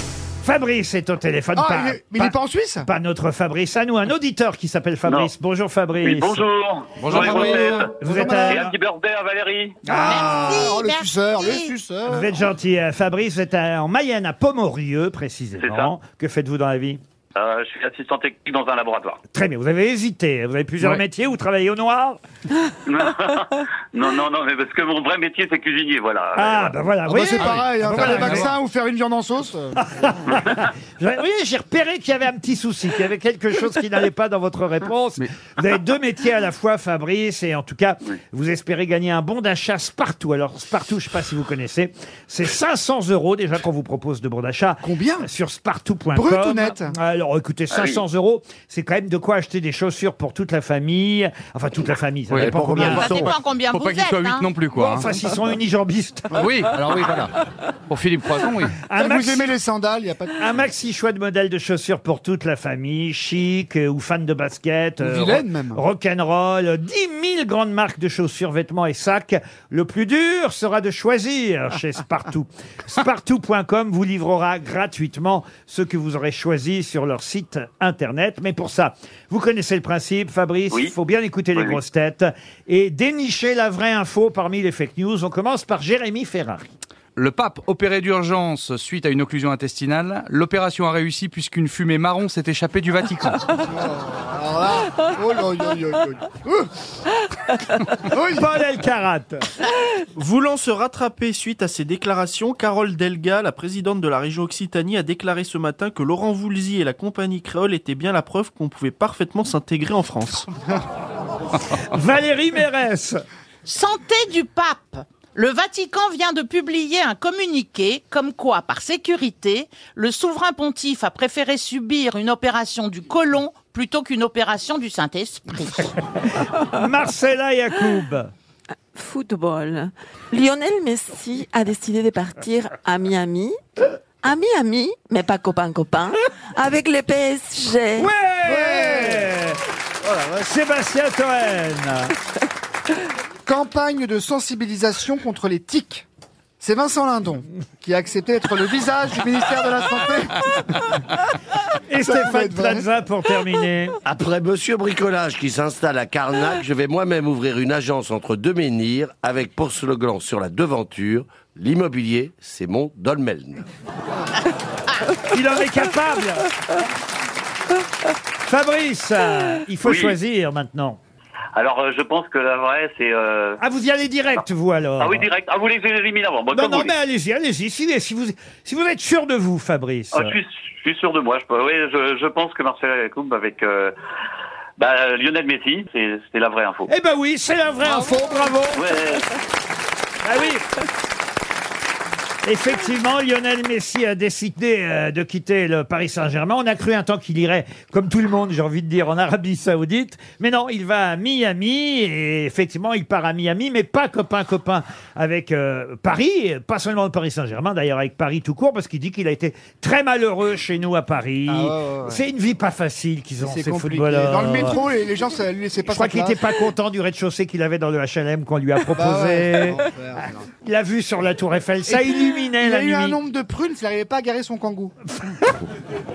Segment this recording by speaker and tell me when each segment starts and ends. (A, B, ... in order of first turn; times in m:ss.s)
0:00.4-0:06.4 A
0:01.6-0:02.9 B
0:05.0-0:05.3 C
0:06.0-0:07.9 C
0:07.0-0:07.8 D
0:07.1-0:08.7 A
0:07.3-0:08.7 B
0:08.4-0:09.8 C
0:09.9-0:10.3 A
0:09.9-0:12.3 B
0:09.9-0:11.7 E
0:12.1-0:17.0 A
0:15.6-0:15.9 C
0:17.4-0:19.2 C
0:19.3-0:22.2 A
0:22.8-0:26.7 C
0:26.4-0:28.5 A
0:27.0-0:29.8 B
0:27.4-0:28.5 D
0:29.8-0:53.1 A
0:44.8-0:45.3 B
0:46.1-0:46.9 B
0:47.7-0:48.0 C
0:52.3-0:55.1 D
0:52.4-0:53.4 F
0:52.7-0:54.5 E
0:54.7-0:56.4 A
0:56.3-0:57.3 D
0:57.9-0:58.8 D
0:58.8-0:59.5 A
0:59.0-1:00.4 B
1:00.4-1:26.6 A
1:05.0-1:05.8 B
1:27.2-1:33.4 D
1:33.7-1:36.7 B
1:38.1-1:38.5 B
1:38.3-1:39.4 A
1:40.2-1:50.5 G
1:51.7-1:53.2 A
1:53.6-2:05.9 E
2:06.4-2:08.3 A
2:08.9-2:13.6 H
2:14.2-2:18.1 H
2:18.0-2:19.6 A
2:18.4-2:19.3 B
2:20.3-2:22.1 A
2:23.4-2:26.0 B
2:26.6-2:30.4 B
2:31.7-2:34.0 A
2:32.0-2:32.8 B
2:34.0-2:43.6 F
2:45.3-2:46.5 A
2:48.4-2:51.0 A
2:49.8-2:50.2 C
2:51.6-2:53.6 C
2:53.6-2:55.3 A
2:55.0-2:56.9 C
2:56.5-3:00.3 A
3:00.1-3:03.9 C
3:04.8-3:06.9 C
3:06.9-3:08.8 A
3:07.8-3:08.5 B
3:08.7-3:09.3 C
3:10.2-3:10.6 A
3:12.4-3:34.7 A
3:31.5-3:32.2 B
3:33.4-3:36.4 B
3:35.9-3:43.2 A
3:38.9-3:40.4 B
3:41.9-3:44.9 B
3:45.2-3:45.6 A